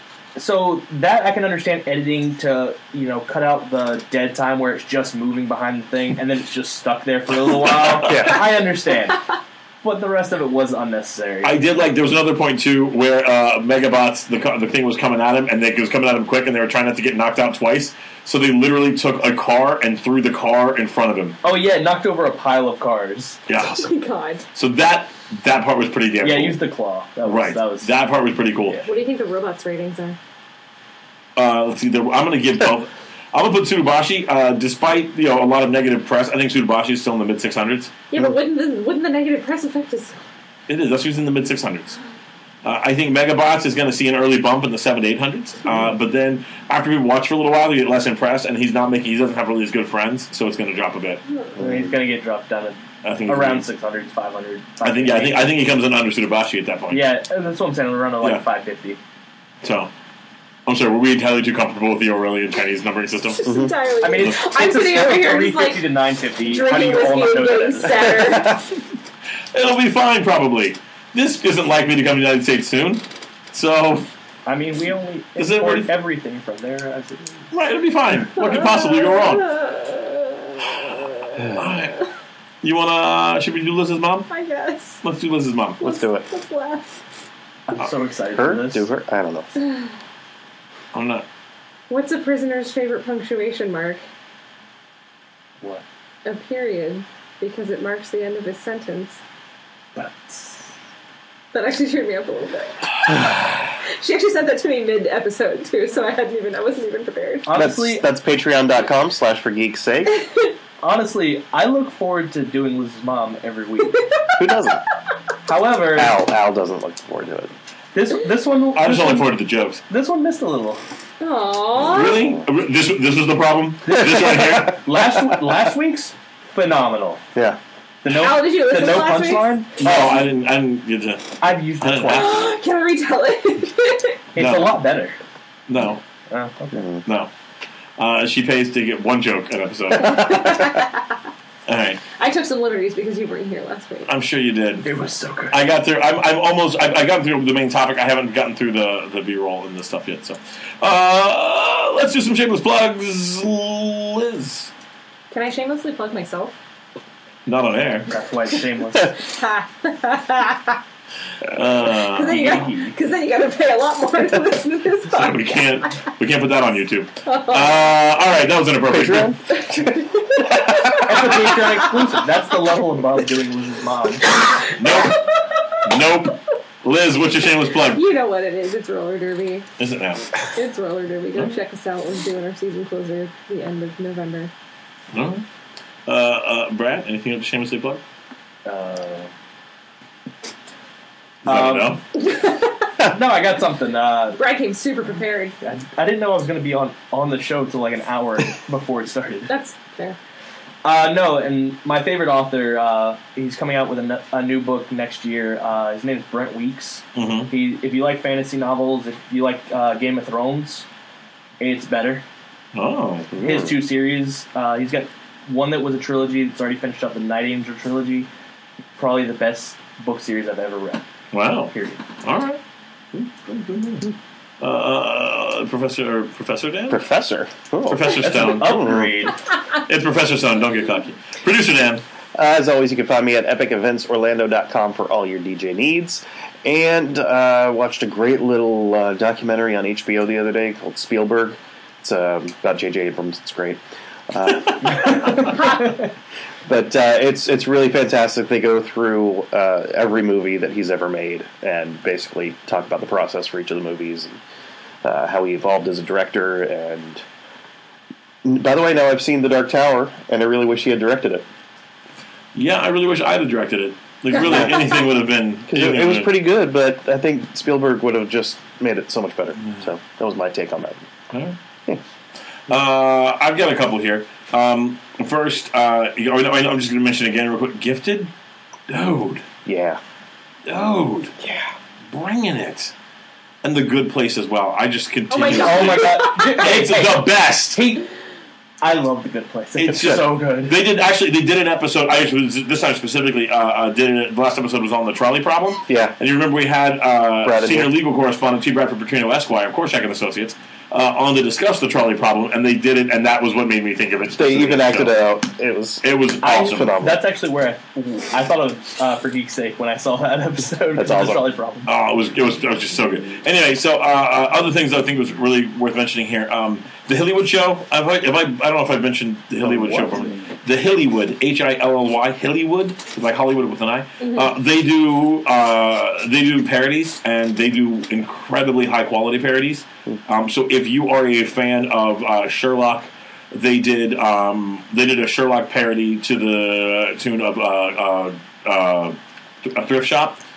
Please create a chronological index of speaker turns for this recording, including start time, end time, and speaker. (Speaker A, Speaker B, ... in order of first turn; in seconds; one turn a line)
Speaker A: 0.3-11.6
Speaker B: 8.0-8.4
Speaker C: 11.4-21.4
Speaker A: 21.4-23.4
Speaker C: 23.5-23.9
Speaker D: 23.6-24.4
Speaker C: 24.5-26.6
Speaker A: 26.2-27.9
Speaker C: 27.2-28.8
Speaker D: 28.8-30.2
Speaker C: 31.4-37.9
Speaker D: 38.1-40.2
Speaker C: 40.7-42.0
Speaker C: 42.6-51.2
Speaker B: 51.6-51.9
Speaker A: 51.6-55.5
Speaker C: 53.0-53.6
Speaker C: 54.8-57.0
Speaker A: 56.9-59.0
Speaker C: 59.6-59.9
Speaker C: 60.6-63.5
Speaker D: 63.4-68.6
Speaker B: 63.4-63.7
Speaker A: 64.0-68.4
Speaker B: 68.2-68.6
Speaker C: 69.5-74.1
Speaker A: 74.4-77.5
Speaker C: 75.4-75.9
Speaker C: 77.5-79.5
Speaker D: 78.3-81.5
Speaker C: 81.5-82.0
Speaker C: 82.6-84.3
Speaker D: 84.3-85.0
Speaker C: 85.0-85.8
Speaker D: 85.8-87.0
Speaker B: 85.8-86.2
Speaker A: 87.7-88.9
Speaker B: 88.3-89.5
Speaker C: 90.9-91.2
Speaker D: 91.9-94.0
Speaker D: 96.2-99.2
Speaker A: 100.0-100.6
Speaker D: 101.5-103.2
Speaker D: 103.8-107.5
Speaker A: 107.4-108.0
Speaker B: 107.5-110.2
Speaker D: 110.1-110.5
Speaker A: 110.8-114.0
Speaker D: 114.0-114.3
Speaker B: 114.4-114.8
Speaker A: 115.5-116.2
Speaker B: 115.9-117.5
Speaker A: 117.9-119.3
Speaker C: 118.7-119.8
Speaker A: 119.9-120.8
Speaker D: 121.2-122.3
Speaker C: 121.8-124.8
Speaker B: 122.0-122.3
Speaker A: 123.8-127.2
Speaker B: 124.0-124.6
Speaker A: 128.0-130.1
Speaker D: 128.1-129.6
Speaker C: 129.8-132.4
Speaker A: 131.4-132.4
Speaker D: 132.1-134.2
Speaker A: 134.3-135.2
Speaker C: 134.3-134.8
Speaker C: 135.7-136.0
Speaker A: 136.3-136.9
Speaker B: 136.7-137.0
Speaker C: 138.0-140.4
Speaker D: 139.9-141.1
Speaker C: 141.7-142.0
Speaker D: 142.2-144.1
Speaker C: 144.1-144.9
Speaker A: 144.8-145.7
Speaker C: 145.5-154.7
Speaker D: 155.3-156.5
Speaker C: 157.4-158.1
Speaker A: 158.1-159.1
Speaker D: 159.1-160.8
Speaker C: 161.5-162.7
Speaker D: 161.9-165.9
Speaker A: 162.2-162.9
Speaker C: 165.1-169.3
Speaker D: 167.2-167.9
Speaker B: 168.8-171.0
Speaker D: 169.5-172.2
Speaker A: 171.0-174.3
Speaker D: 174.3-175.4
Speaker C: 174.8-175.2
Speaker C: 175.8-178.0
Speaker D: 177.8-179.7
Speaker C: 179.8-180.3
Speaker D: 180.5-184.5
Speaker C: 185.1-185.4
Speaker C: 186.1-188.0
Speaker A: 188.6-189.3
Speaker C: 191.4-192.0
Speaker A: 191.4-192.0
Speaker D: 192.2-192.9
Speaker A: 193.0-194.4
Speaker D: 194.3-195.6
Speaker A: 195.6-199.5
Speaker D: 199.5-200.2
Speaker A: 200.8-210.8
Speaker C: 207.1-207.5
Speaker A: 211.6-212.2
Speaker C: 212.7-213.7
Speaker B: 213.3-213.7
Speaker A: 213.4-218.3
Speaker A: 219.0-221.0
Speaker C: 221.3-221.7
Speaker A: 221.7-222.0
Speaker C: 222.2-222.6
Speaker C: 223.1-224.1
Speaker C: 224.6-227.0
Speaker B: 226.9-229.3
Speaker C: 227.9-228.8
Speaker A: 228.2-229.3
Speaker C: 229.8-232.0
Speaker B: 232.3-245.6
Speaker A: 245.0-245.9
Speaker B: 246.7-254.3
Speaker B: 255.0-257.2
Speaker B: 258.4-261.4
Speaker C: 262.5-266.4
Speaker B: 264.4-264.7
Speaker D: 264.7-265.0
Speaker B: 265.7-271.0
Speaker C: 272.7-278.3
Speaker C: 278.9-279.4
Speaker B: 279.6-280.0
Speaker C: 280.7-281.3
Speaker B: 281.4-281.7
Speaker C: 282.1-282.9
Speaker C: 283.6-287.8
Speaker D: 285.3-286.8
Speaker A: 285.5-288.1
Speaker A: 288.8-290.8
Speaker C: 289.8-305.1
Speaker B: 295.9-296.1
Speaker B: 297.4-297.9
Speaker B: 304.4-307.2
Speaker C: 306.0-306.9
Speaker A: 306.4-311.9
Speaker B: 310.9-311.4
Speaker C: 311.9-340.4
Speaker B: 319.6-320.3
Speaker D: 324.2-324.5